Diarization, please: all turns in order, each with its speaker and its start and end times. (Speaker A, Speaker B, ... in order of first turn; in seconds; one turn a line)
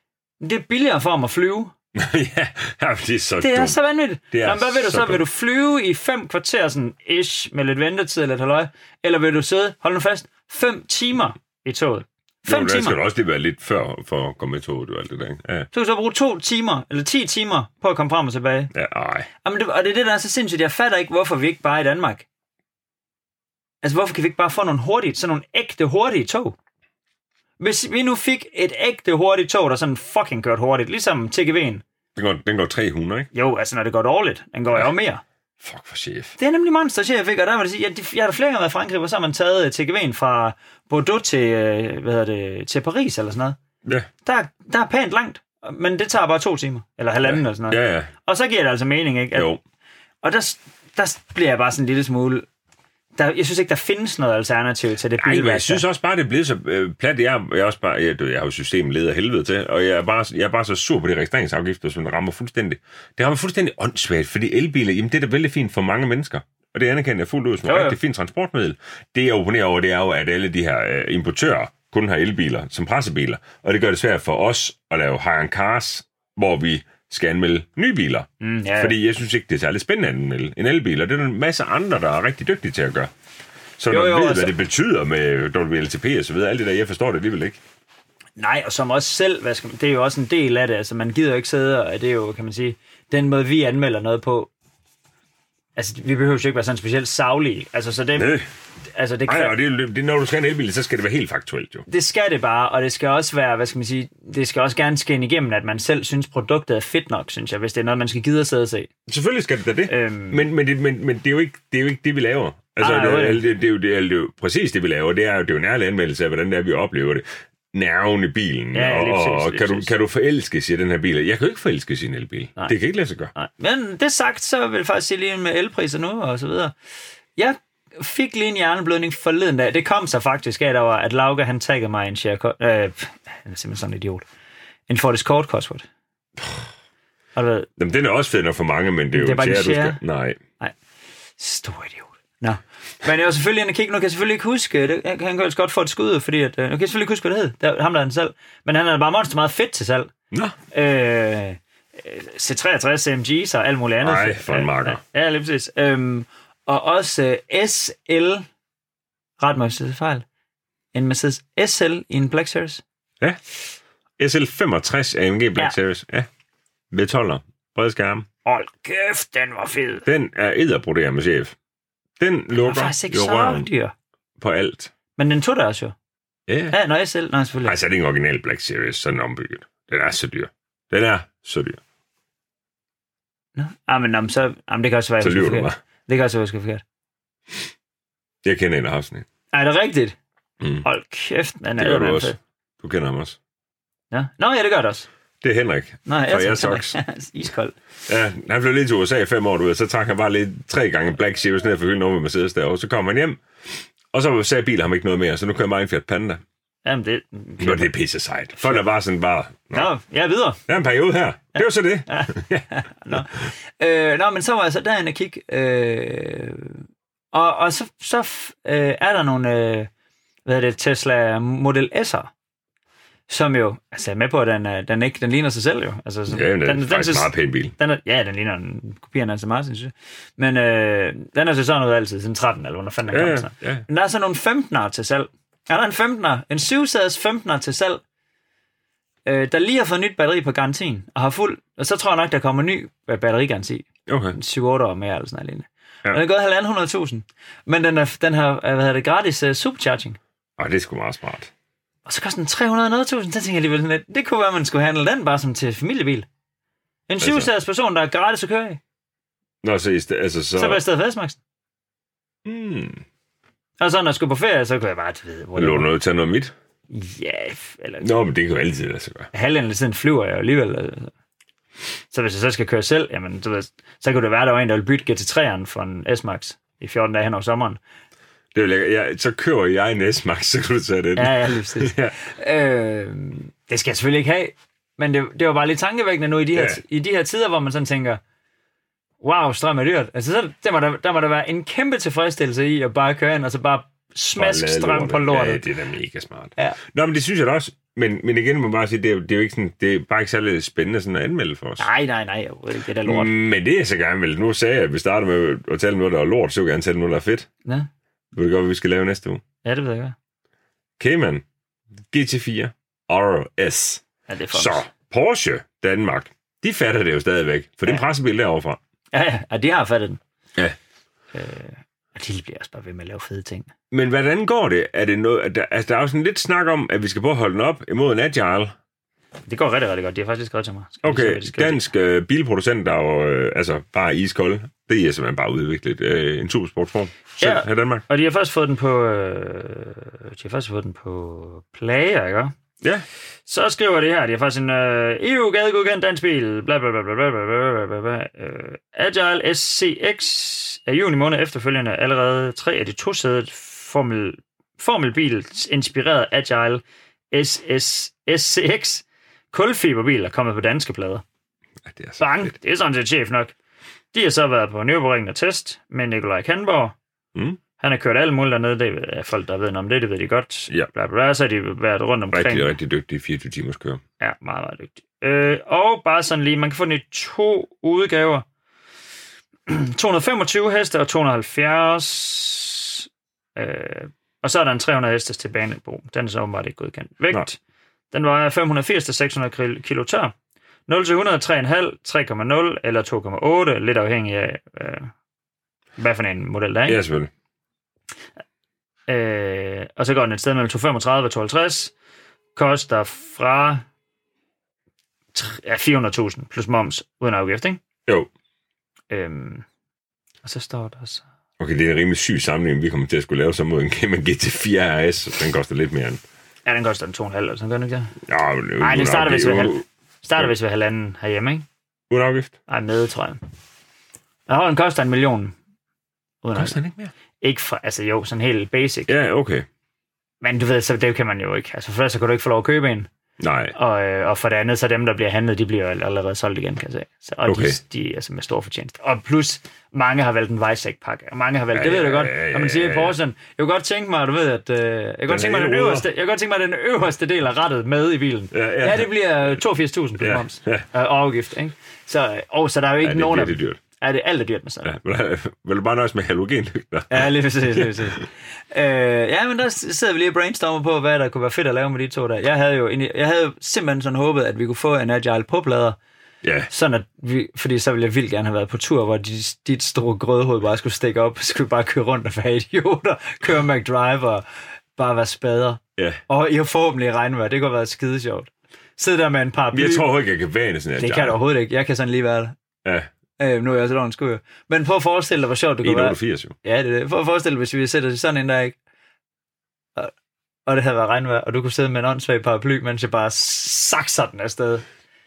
Speaker A: 0.4-1.7
Speaker B: 1.9-3.8
Speaker A: 3.4-13.0
Speaker B: 4.3-5.2
Speaker B: 12.5-15.7
Speaker A: 15.7-18.7
Speaker B: 18.7-19.3
Speaker A: 19.4-22.3
Speaker A: 23.8-26.6
Speaker A: 27.6-31.8
Speaker B: 32.1-33.3
Speaker A: 33.3-35.2
Speaker B: 35.6-36.4
Speaker A: 36.4-43.6
Speaker A: 44.2-49.5
Speaker B: 47.2-48.1
Speaker B: 49.3-49.6
Speaker A: 50.2-52.5
Speaker A: 53.2-55.8
Speaker B: 55.2-78.3
Speaker A: 67.7-68.0
Speaker A: 78.4-79.0
Speaker B: 78.8-83.1
Speaker B: 83.8-87.6
Speaker A: 83.9-84.5
Speaker A: 88.4-94.5
Speaker A: 95.8-98.4
Speaker B: 98.2-98.5
Speaker A: 98.9-99.6
Speaker B: 99.3-101.9
Speaker A: 101.9-108.9
Speaker B: 109.1-123.3
Speaker A: 109.9-110.5
Speaker A: 112.8-113.4
Speaker A: 118.7-119.9
Speaker A: 123.3-126.7
Speaker A: 127.4-134.2
Speaker A: 134.9-135.9
Speaker B: 136.4-136.7
Speaker A: 137.3-137.7
Speaker B: 137.8-140.4
Speaker A: 139.1-140.0
Speaker A: 141.4-150.1
Speaker A: 150.7-158.4
Speaker B: 154.0-155.0
Speaker A: 159.4-160.2
Speaker A: 160.9-162.8
Speaker B: 164.2-166.3
Speaker B: 166.9-168.3
Speaker A: 168.4-170.1
Speaker B: 170.1-171.6
Speaker B: 172.2-173.7
Speaker A: 172.6-173.9
Speaker B: 174.4-174.9
Speaker A: 175.2-175.9
Speaker B: 176.5-176.8
Speaker A: 176.7-177.8
Speaker B: 177.7-181.8
Speaker A: 183.6-186.8
Speaker B: 185.2-185.8
Speaker B: 188.4-189.2
Speaker A: 189.5-190.2
Speaker A: 190.8-192.4
Speaker B: 191.8-193.4
Speaker A: 194.1-195.1
Speaker B: 195.4-197.0
Speaker A: 196.1-197.8
Speaker B: 198.1-206.4
Speaker A: 206.8-207.9
Speaker B: 207.6-209.9
Speaker A: 208.6-208.8
Speaker A: 209.7-210.6
Speaker B: 210.7-213.2
Speaker A: 211.6-219.9
Speaker A: 220.5-222.3
Speaker A: 223.3-238.0
Speaker B: 226.3-227.7
Speaker B: 233.1-233.8
Speaker A: 239.3-250.2
Speaker B: 244.1-244.4
Speaker B: 250.6-251.5
Speaker A: 252.1-256.3
Speaker A: 257.1-258.8
Speaker B: 257.2-257.5
Speaker B: 259.6-260.8
Speaker A: 260.6-261.4
Speaker B: 262.4-263.0
Speaker A: 263.8-265.9
Speaker B: 265.6-266.5
Speaker A: 266.9-268.1
Speaker B: 268.0-269.3
Speaker A: 269.3-271.1
Speaker A: 272.1-277.8
Speaker B: 278.5-282.2
Speaker A: 281.2-288.2
Speaker B: 286.5-286.8
Speaker A: 289.2-295.6
Speaker B: 294.4-301.9
Speaker A: 301.8-303.3
Speaker B: 303.0-307.5
Speaker B: 308.3-309.4
Speaker A: 309.6-310.2
Speaker B: 311.0-311.4
Speaker B: 312.1-318.8
Speaker A: 314.3-314.9
Speaker A: 319.1-320.2
Speaker A: 321.3-323.7
Speaker B: 323.9-328.7
Speaker A: 329.5-331.9
Speaker B: 331.0-338.1
Speaker A: 337.4-342.6
Speaker A: 343.5-361.2
Speaker B: 361.8-362.5
Speaker A: 362.2-363.5
Speaker A: 364.1-367.0
Speaker A: 367.8-372.7
Speaker B: 372.3-374.0
Speaker A: 374.2-378.5
Speaker A: 379.7-387.6
Speaker A: 388.1-390.3
Speaker A: 390.9-395.1
Speaker A: 396.0-397.0
Speaker B: 396.9-397.3
Speaker A: 399.1-401.9
Speaker A: 402.6-403.9
Speaker A: 405.3-407.8
Speaker A: 409.1-409.6
Speaker A: 410.4-411.2
Speaker B: 411.6-416.2
Speaker A: 416.6-418.2
Speaker B: 418.3-419.8
Speaker A: 418.8-421.7
Speaker B: 422.1-422.5
Speaker A: 422.7-423.4
Speaker A: 424.5-425.6
Speaker A: 426.4-426.8
Speaker B: 426.6-427.1
Speaker A: 427.4-429.1
Speaker B: 429.1-429.6
Speaker A: 430.4-433.1
Speaker B: 433.4-433.8
Speaker A: 433.7-455.0
Speaker B: 437.5-437.8
Speaker B: 441.7-443.2
Speaker B: 445.3-446.1
Speaker B: 448.5-449.1
Speaker B: 450.2-450.9
Speaker B: 453.0-453.8
Speaker B: 454.8-458.0
Speaker A: 457.1-466.0
Speaker B: 466.4-466.7
Speaker A: 466.7-474.4
Speaker A: 475.0-480.1
Speaker B: 479.7-481.4
Speaker A: 481.0-482.6
Speaker A: 483.4-488.8
Speaker B: 485.8-486.6
Speaker A: 490.7-494.8